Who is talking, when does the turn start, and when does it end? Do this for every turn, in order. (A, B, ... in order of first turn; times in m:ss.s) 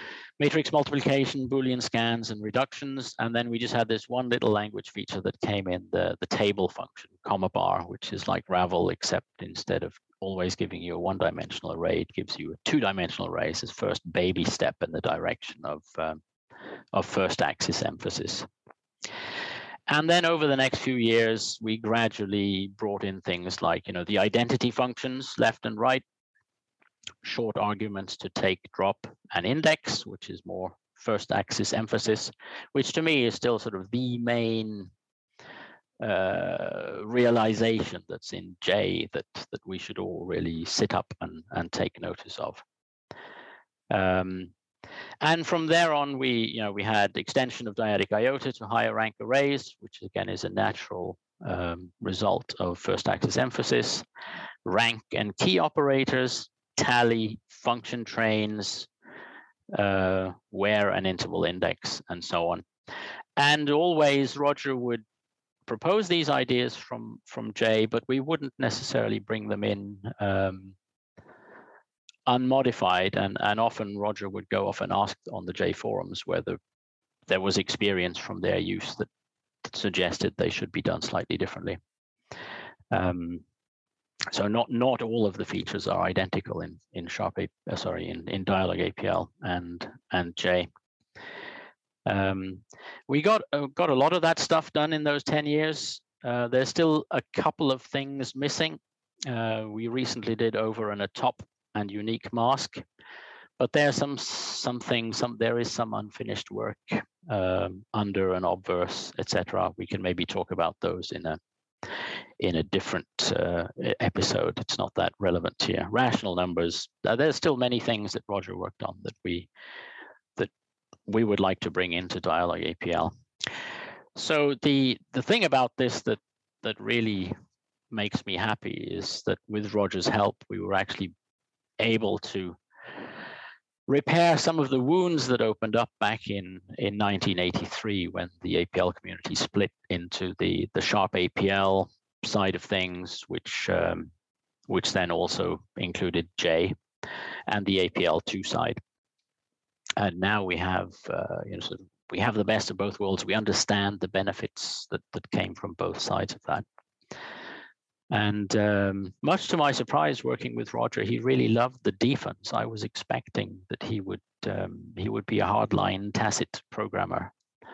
0:00.4-0:16.2 A
0:16.9-0:18.5 A
0:19.9-0:26.0 A
0:27.2-0:34.9 A
0:36.0-0:42.6 A
0:43.9-0:44.5 A
0:45.2-0:54.0 A
0:54.6-0:58.9 A
0:59.7-1:02.6 A
1:03.4-1:05.0 A
1:05.7-1:10.8 A
1:12.3-1:16.6 A
1:17.3-1:19.1 A
1:19.6-1:21.8 A
1:22.9-1:23.4 A
1:24.3-1:30.7 A
1:32.1-1:42.8 A
1:43.6-1:59.5 A
2:01.1-2:03.1 A
2:04.2-2:07.3 A
2:07.9-2:11.1 A
2:11.8-2:12.6 A
2:13.9-2:24.1 A
2:24.7-2:26.8 A
2:27.5-2:28.8 A
2:30.0-2:36.6 A
2:38.1-2:47.3 A